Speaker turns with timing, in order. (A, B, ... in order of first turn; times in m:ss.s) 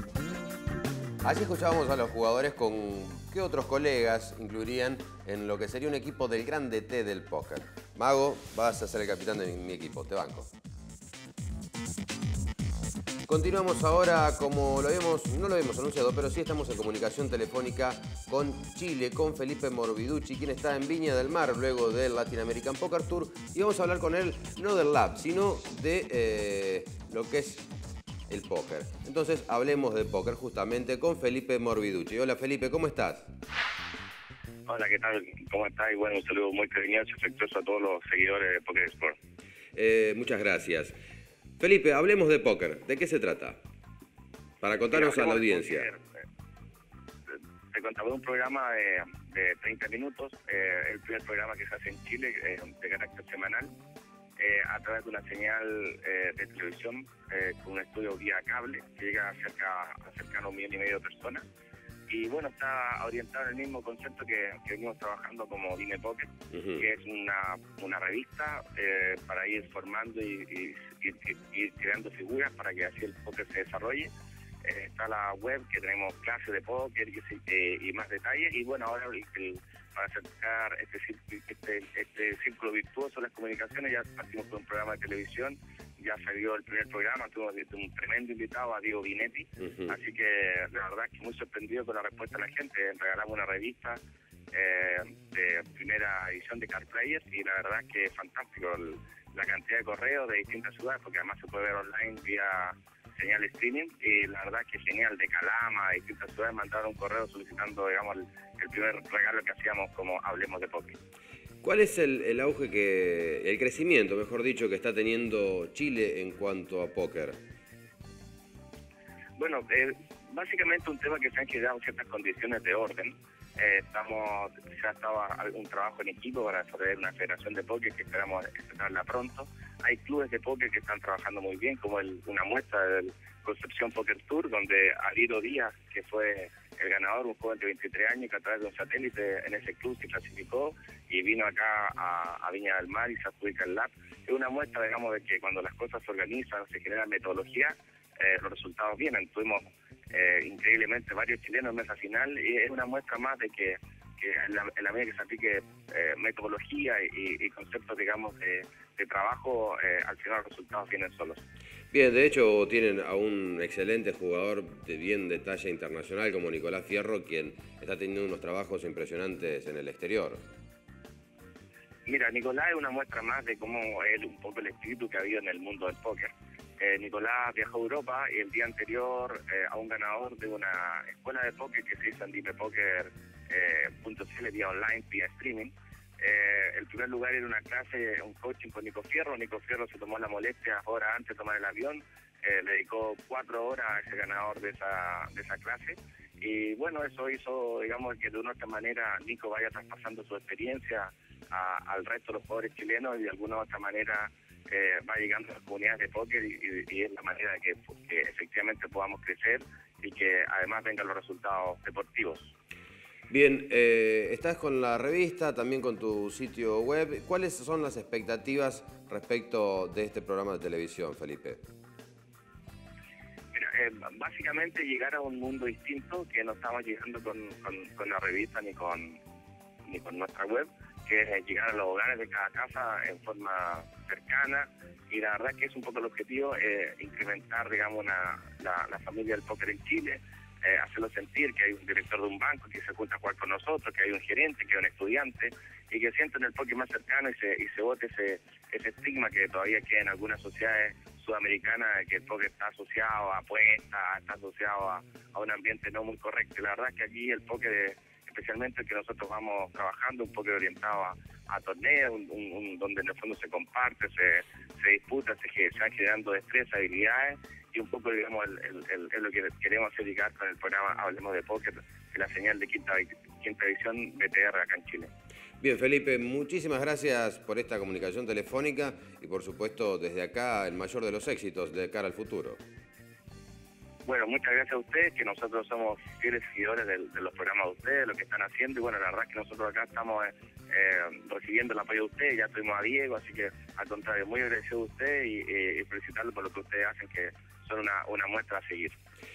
0:01.2-0:10.5 A
0:13.3-0:27.7 A
0:28.3-0:33.3 A
0:34.7-0:39.2 B
0:39.8-0:41.0 A
0:41.6-0:43.6 A
0:44.6-0:45.9 A
0:44.9-0:46.0 B
0:47.7-0:53.7 B
0:54.4-1:01.4 B
1:02.1-1:14.1 B
1:14.6-1:34.0 B
1:34.5-1:51.0 B
1:51.6-1:57.4 A
1:59.4-2:41.4 B
2:41.9-2:50.4 A
2:52.1-3:32.5 B
3:33.3-3:41.6 A
3:43.5-3:49.2 B
3:49.9-4:35.1 B
4:35.6-4:42.6 A
4:44.0-4:59.0 B